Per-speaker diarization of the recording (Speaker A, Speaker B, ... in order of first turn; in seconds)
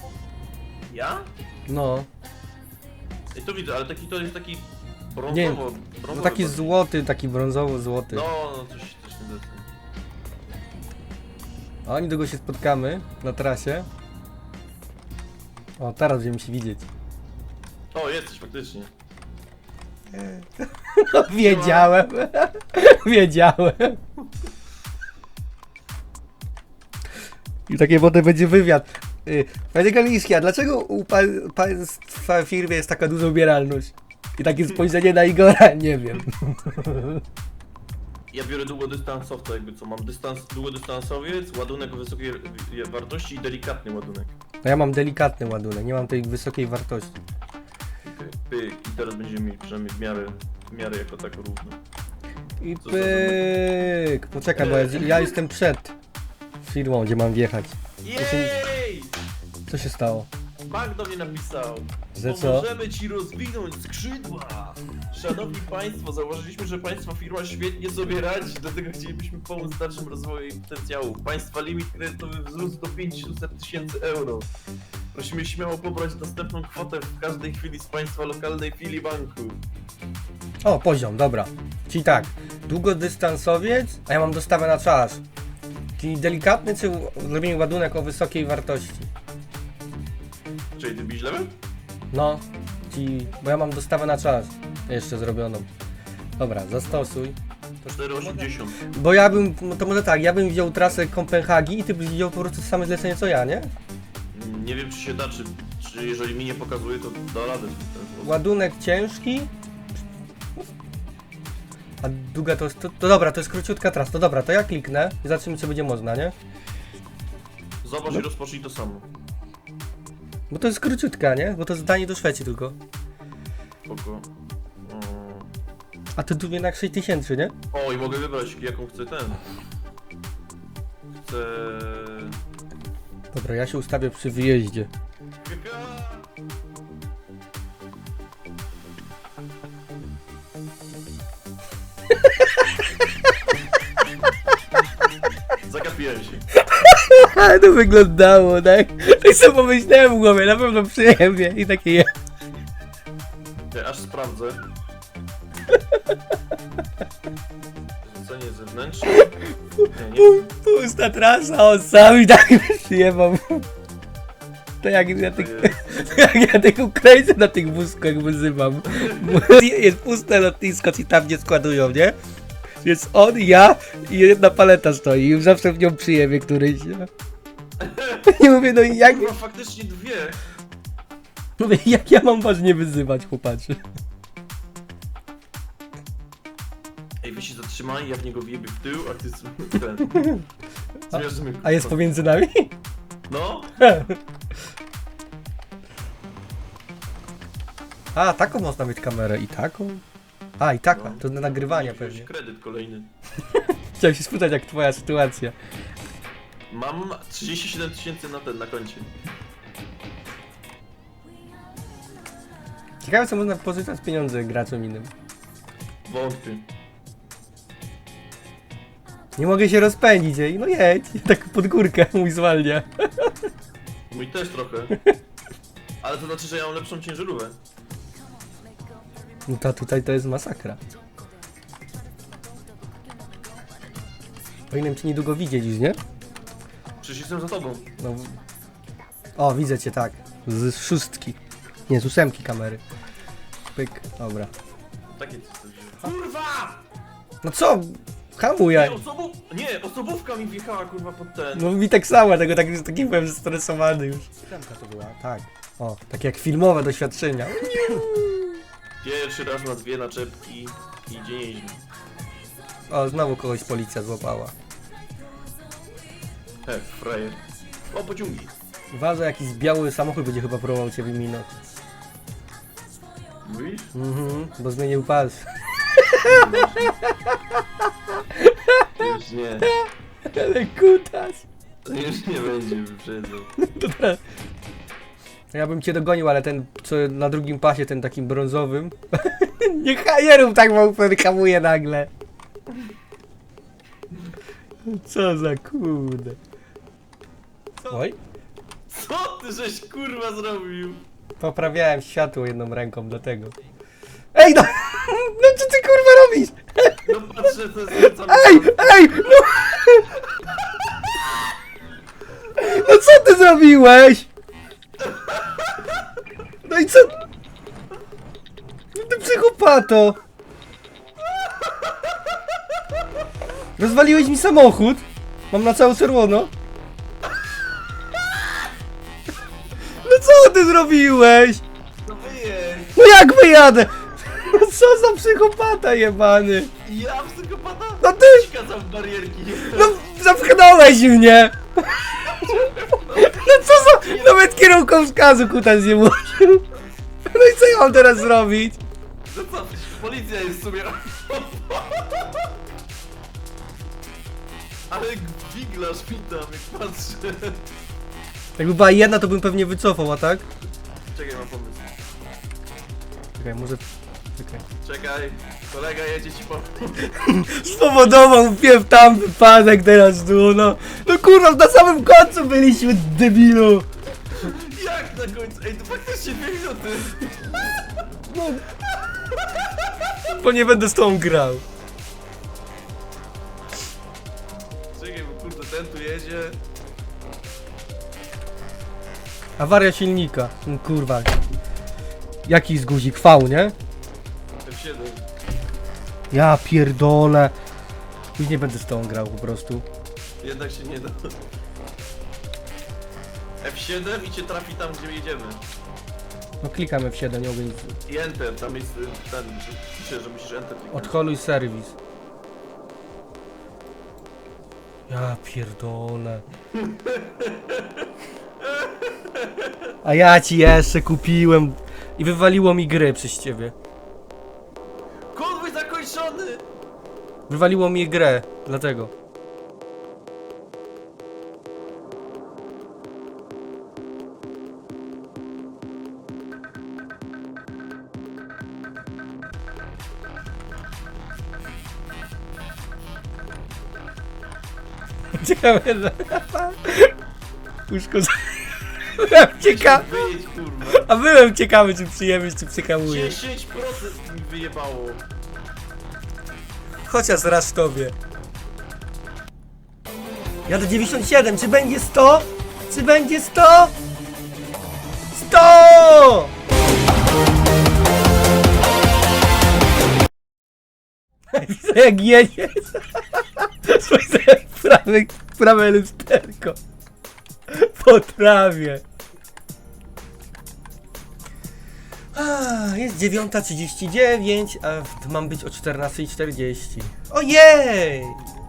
Speaker A: 0.9-1.3, 3.3-6.8, 8.1-9.7, 17.9-18.9, 21.4-21.9, 38.3-44.3, 48.0-51.8, 52.8-53.5, 54.5-55.3, 58.0-59.2, 60.7-74.5, 75.1-79.6, 90.8-91.5, 97.8-98.8, 104.3-108.4, 117.8-119.1, 123.9-124.3, 124.8-125.5, 127.7-129.4, 131.1-132.4, 135.4-136.3, 145.7-146.5, 153.7-154.6, 158.0-159.3, 159.9-160.5, 165.3-166.0, 168.9-169.4, 177.8-178.3, 179.0-180.4, 187.2-190.3, 191.1-192.1, 193.3-193.8, 200.9-203.1, 206.7-209.1, 216.1-216.7, 224.1-225.0, 226.0-227.6, 237.0-237.9, 245.1-246.8, 248.7-251.7, 259.0-261.8, 266.7-268.5, 273.4-273.9, 276.2-276.9, 279.0-279.7, 281.9-283.5, 298.9-301.1, 307.1-309.2, 315.0-315.9, 321.4-322.3, 332.0-333.0, 336.8-340.0, 342.2-344.5, 349.3-352.5, 354.9-357.6, 361.1-361.9, 364.8-367.1, 374.3-377.5, 378.7-380.0, 384.9-386.6, 394.6-395.3, 400.4-401.4, 403.6-405.6, 408.1-411.1, 416.7-419.9, 425.3-426.6, 449.6-451.1, 453.1-455.2, 460.7-461.0
Speaker B: 1.7-2.1, 5.3-8.3, 11.9-13.9, 15.8-16.9, 20.1-24.0, 27.7-37.2, 44.6-47.2, 52.6-56.0, 56.6-58.5, 59.7-60.3, 62.1-62.7, 80.6-85.2, 86.0-89.1, 92.1-95.7, 96.4-97.4, 98.8-103.7, 108.2-109.5, 112.0-116.3, 120.5-122.8, 126.2-127.5, 133.3-134.9, 142.2-142.8, 146.6-152.1, 155.7-156.1, 159.1-163.7, 164.8-172.2, 172.8-177.1, 178.3-179.3, 181.6-183.8, 190.2-190.4, 191.1-192.7, 193.8-194.2, 198.1-200.0, 200.6-202.3, 203.5-205.6, 213.0-215.1, 219.4-223.3, 229.5-230.8, 234.7-236.0, 238.0-238.4, 239.4-242.8, 243.8-244.5, 247.4-249.0, 251.6-258.6, 262.9-264.5, 268.9-271.5, 273.9-279.1, 279.6-281.5, 283.6-284.2, 285.5-292.1, 294.8-296.4, 297.9-298.2, 301.4-303.6, 304.3-310.3, 312.6-314.3, 316.6-317.1, 318.9-320.2, 323.8-326.5, 330.0-331.6, 332.9-336.7, 338.0-338.5, 339.6-346.7, 347.3-348.8, 358.6-360.5, 363.4-363.8, 364.4-364.6, 367.1-373.9, 378.3-378.6, 380.3-381.6, 389.6-391.4, 392.5-393.8, 396.3-397.6, 398.4-399.9, 406.6-408.0, 410.9-411.9, 415.1-416.4, 420.0-423.7, 427.5-429.1, 445.4-447.1, 447.9-450.1, 450.8-453.4, 457.1-458.1, 460.7-463.9, 465.3-466.5, 471.5-476.8, 477.7-479.0, 482.3-488.4